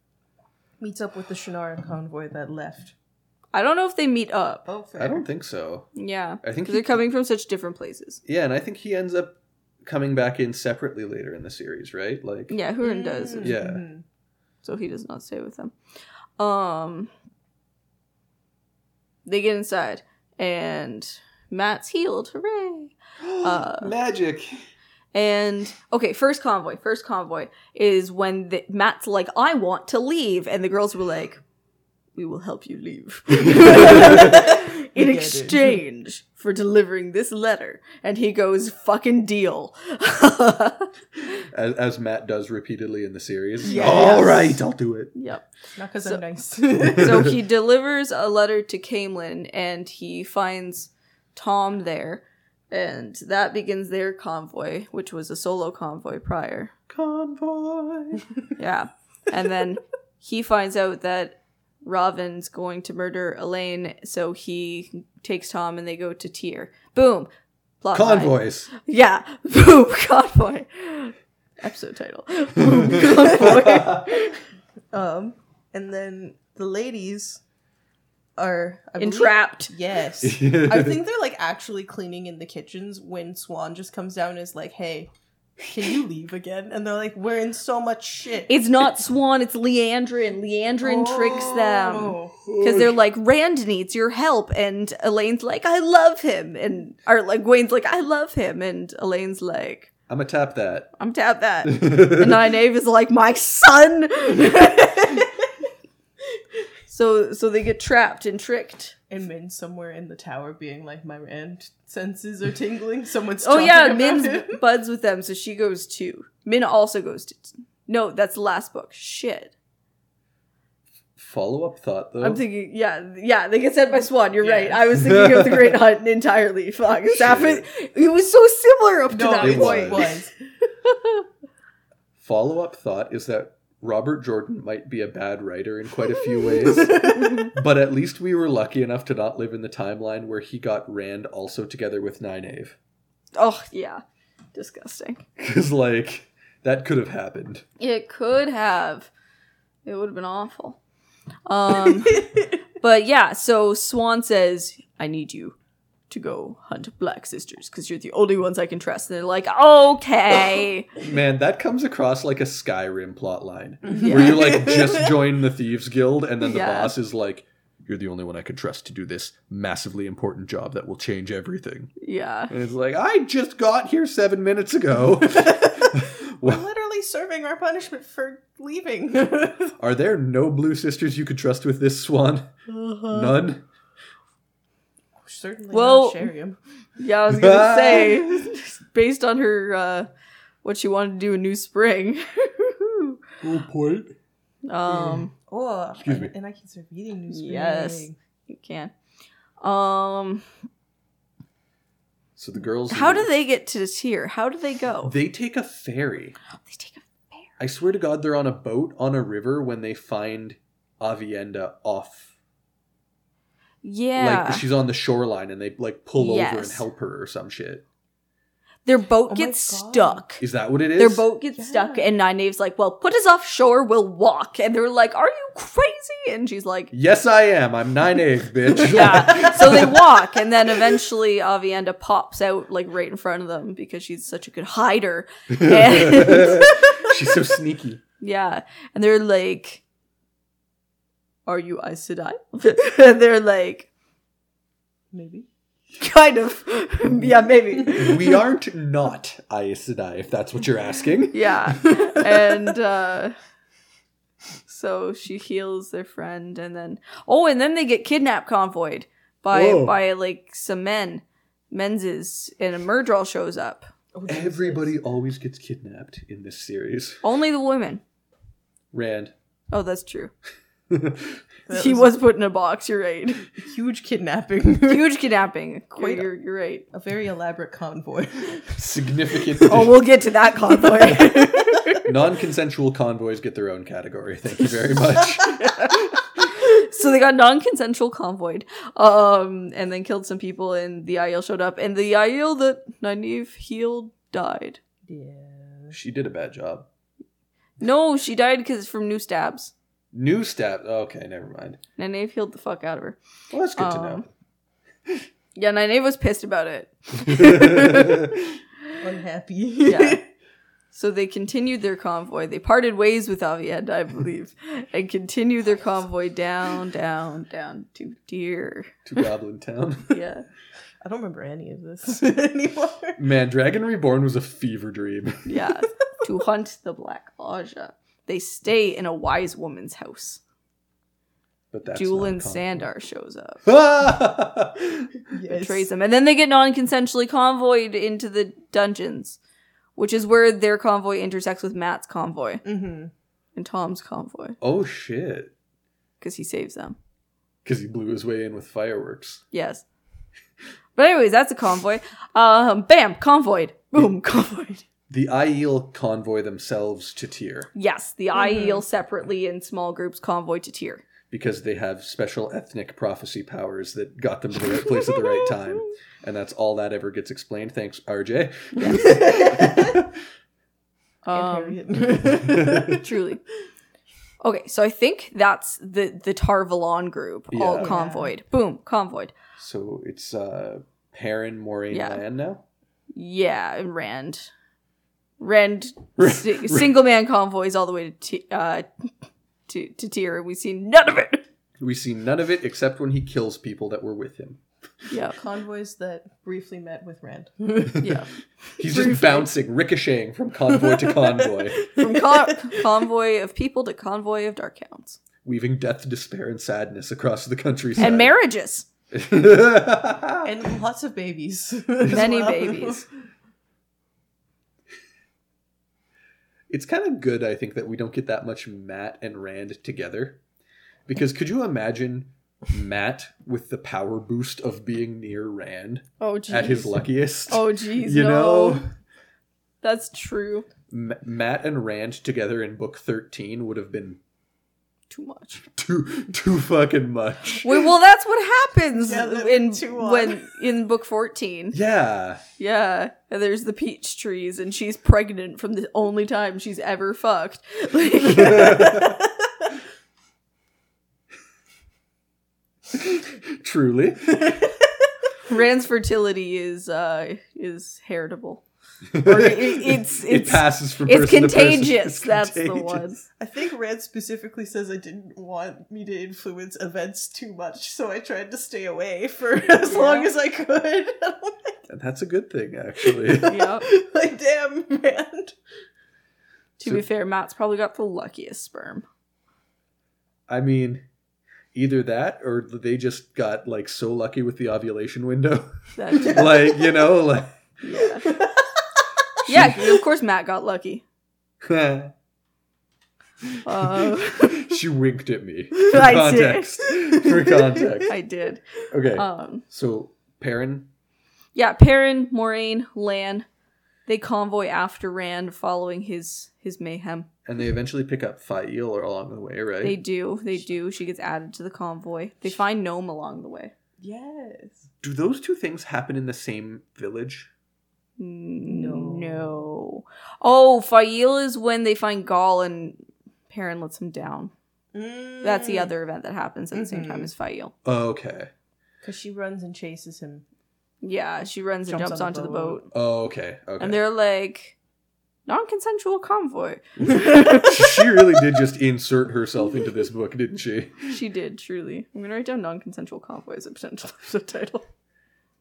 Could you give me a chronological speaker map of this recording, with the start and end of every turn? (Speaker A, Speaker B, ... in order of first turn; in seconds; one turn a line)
Speaker A: 0.8-3.0
Speaker B: 3.5-4.7
Speaker A: 4.7-5.3
Speaker C: 5.0-5.9
Speaker B: 6.0-8.2
Speaker C: 6.4-7.0
Speaker C: 8.3-12.6
Speaker B: 12.5-13.6
Speaker A: 12.8-14.0
Speaker C: 13.4-13.8
Speaker B: 14.6-15.7
Speaker B: 16.4-17.1
Speaker B: 19.3-23.9
Speaker C: 23.2-24.6
Speaker B: 25.1-31.4
Speaker B: 32.2-40.9
Speaker A: 33.5-35.8
Speaker C: 41.5-45.1
Speaker A: 43.6-44.5
Speaker B: 43.7-44.4
Speaker B: 45.1-45.5
Speaker A: 45.8-47.4
Speaker B: 46.9-56.7
Speaker C: 56.9-58.3
Speaker B: 58.6-67.3
Speaker B: 67.8-74.3
Speaker C: 67.9-68.7
Speaker C: 72.8-74.1
Speaker A: 74.9-77.4
Speaker A: 78.4-85.1
Speaker B: 79.0-79.7
Speaker C: 80.2-81.0
Speaker A: 85.7-88.6
Speaker B: 88.5-99.9
Speaker A: 90.8-92.4
Speaker C: 92.4-93.0
Speaker C: 100.1-100.9
Speaker B: 101.0-105.3
Speaker C: 101.7-102.4
Speaker B: 106.9-109.0
Speaker A: 109.1-114.6
Speaker B: 113.4-119.5
Speaker C: 121.2-122.4
Speaker B: 122.2-130.1
Speaker A: 124.4-124.8
Speaker C: 125.0-125.8
Speaker C: 127.1-127.7
Speaker A: 129.1-130.3
Speaker C: 129.4-130.1
Speaker C: 132.2-142.8
Speaker A: 136.8-137.3
Speaker B: 137.1-137.5
Speaker B: 143.3-144.0
Speaker B: 144.5-145.2
Speaker C: 145.4-147.7
Speaker B: 147.8-149.1
Speaker B: 149.8-150.8
Speaker B: 151.5-155.6
Speaker B: 156.1-160.9
Speaker C: 161.0-171.9
Speaker A: 163.9-165.2
Speaker B: 164.0-164.5
Speaker B: 166.4-166.9
Speaker B: 172.0-172.5
Speaker C: 172.5-176.6
Speaker A: 175.4-179.7
Speaker C: 179.8-182.5
Speaker B: 182.7-183.3
Speaker C: 183.1-183.7
Speaker A: 185.2-186.6
Speaker B: 185.7-186.3
Speaker B: 187.0-190.1
Speaker C: 187.3-188.4
Speaker B: 190.6-193.2
Speaker C: 193.4-194.2
Speaker B: 194.7-195.3
Speaker A: 195.1-198.2
Speaker C: 196.0-196.3
Speaker B: 197.3-198.9
Speaker B: 199.6-200.4
Speaker C: 202.4-203.3
Speaker B: 202.9-205.2
Speaker C: 205.0-206.4
Speaker B: 206.6-207.5
Speaker C: 207.6-212.3
Speaker B: 213.8-214.7
Speaker C: 214.2-217.8
Speaker B: 216.2-216.8
Speaker B: 218.8-220.4
Speaker A: 219.3-220.2
Speaker C: 220.4-221.3
Speaker B: 221.0-226.9
Speaker A: 221.6-222.1
Speaker C: 226.9-230.1
Speaker B: 228.8-237.1
Speaker C: 235.5-238.0
Speaker B: 238.2-239.8
Speaker B: 241.5-243.9
Speaker A: 245.1-245.5
Speaker B: 246.0-248.4
Speaker C: 247.9-251.8
Speaker B: 251.3-253.4
Speaker B: 254.7-263.9
Speaker C: 259.5-260.0
Speaker A: 264.1-264.9
Speaker C: 264.3-267.2
Speaker B: 267.2-268.0
Speaker C: 268.9-269.3
Speaker B: 269.7-270.3
Speaker C: 270.9-271.4
Speaker A: 271.7-272.2
Speaker B: 271.7-273.5
Speaker A: 273.6-275.2
Speaker B: 274.9-276.9
Speaker A: 276.0-276.3
Speaker A: 276.9-278.8
Speaker C: 278.7-280.0
Speaker B: 279.6-282.1
Speaker C: 282.1-285.8
Speaker B: 286.6-294.8
Speaker A: 295.1-296.0
Speaker C: 295.9-296.9
Speaker B: 297.8-299.7
Speaker C: 300.1-301.8
Speaker B: 302.0-303.2
Speaker C: 303.5-304.2
Speaker B: 303.8-304.3
Speaker B: 305.6-308.3
Speaker C: 307.3-308.4
Speaker A: 309.0-310.2
Speaker B: 309.8-310.2
Speaker B: 310.9-319.0
Speaker C: 319.1-320.2
Speaker B: 320.1-320.5
Speaker A: 321.0-323.2
Speaker C: 323.2-325.5
Speaker B: 325.5-330.4
Speaker C: 331.7-332.8
Speaker B: 331.9-333.6
Speaker C: 333.6-335.1
Speaker A: 335.3-335.9
Speaker B: 335.5-339.4
Speaker B: 340.0-342.6
Speaker A: 342.6-343.1
Speaker B: 343.6-344.6
Speaker C: 344.6-345.5
Speaker B: 346.2-347.0
Speaker C: 347.6-349.4
Speaker B: 349.5-349.9
Speaker B: 351.0-354.8
Speaker C: 355.1-357.7
Speaker B: 357.8-361.1
Speaker A: 358.4-358.8
Speaker C: 361.3-370.1
Speaker B: 368.8-369.1
Speaker A: 368.9-370.0
Speaker B: 371.2-371.8
Speaker A: 371.3-373.0
Speaker C: 372.4-372.8
Speaker B: 372.9-373.4
Speaker B: 374.4-379.3
Speaker C: 377.5-377.9
Speaker A: 377.8-378.3
Speaker C: 379.6-382.6
Speaker B: 381.9-382.2
Speaker B: 383.1-384.5
Speaker B: 385.4-389.1
Speaker C: 386.2-386.9
Speaker B: 389.7-391.4
Speaker C: 391.8-394.6
Speaker B: 395.1-395.4
Speaker A: 395.4-398.1
Speaker B: 398.0-399.5
Speaker C: 398.8-401.8
Speaker A: 400.8-402.8
Speaker B: 402.0-405.2
Speaker C: 405.4-408.3
Speaker B: 408.0-408.9
Speaker C: 409.1-410.5
Speaker A: 410.4-413.1
Speaker B: 412.1-413.1
Speaker C: 416.7-420.4
Speaker C: 421.1-428.9
Speaker B: 426.2-428.8
Speaker B: 429.8-430.7
Speaker C: 430.9-434.2
Speaker B: 435.1-435.6
Speaker C: 435.6-437.9
Speaker B: 437.6-441.8
Speaker A: 439.0-440.6
Speaker C: 441.7-442.4
Speaker B: 442.6-449.0
Speaker C: 448.3-449.2
Speaker C: 452.9-454.4
Speaker B: 455.5-458.6
Speaker C: 459.1-463.1
Speaker B: 459.2-463.2
Speaker A: 463.4-471.8
Speaker B: 469.9-470.3
Speaker C: 471.9-473.6
Speaker A: 473.1-475.6
Speaker B: 473.5-473.9
Speaker B: 476.8-479.1
Speaker C: 480.5-481.0
Speaker C: 481.7-487.5
Speaker B: 486.0-486.5
Speaker B: 487.8-488.3
Speaker A: 488.3-488.6
Speaker C: 489.4-490.0
Speaker B: 489.5-491.0
Speaker C: 491.6-492.1
Speaker B: 493.6-494.8
Speaker C: 494.4-498.1
Speaker B: 495.7-497.0
Speaker B: 498.1-499.6
Speaker C: 498.9-500.9
Speaker B: 501.6-503.5
Speaker B: 504.1-507.3
Speaker C: 507.5-510.0
Speaker B: 509.8-513.7
Speaker A: 514.0-514.9
Speaker C: 515.0-517.5
Speaker B: 518.2-524.5
Speaker A: 518.6-519.7
Speaker A: 524.9-525.9
Speaker B: 525.4-527.7
Speaker A: 526.7-527.3
Speaker C: 527.9-528.5
Speaker A: 529.0-530.5
Speaker B: 531.0-532.9
Speaker A: 531.9-532.8
Speaker C: 532.9-534.0
Speaker B: 533.8-534.8
Speaker B: 535.5-537.9
Speaker C: 537.2-541.1
Speaker B: 541.1-544.9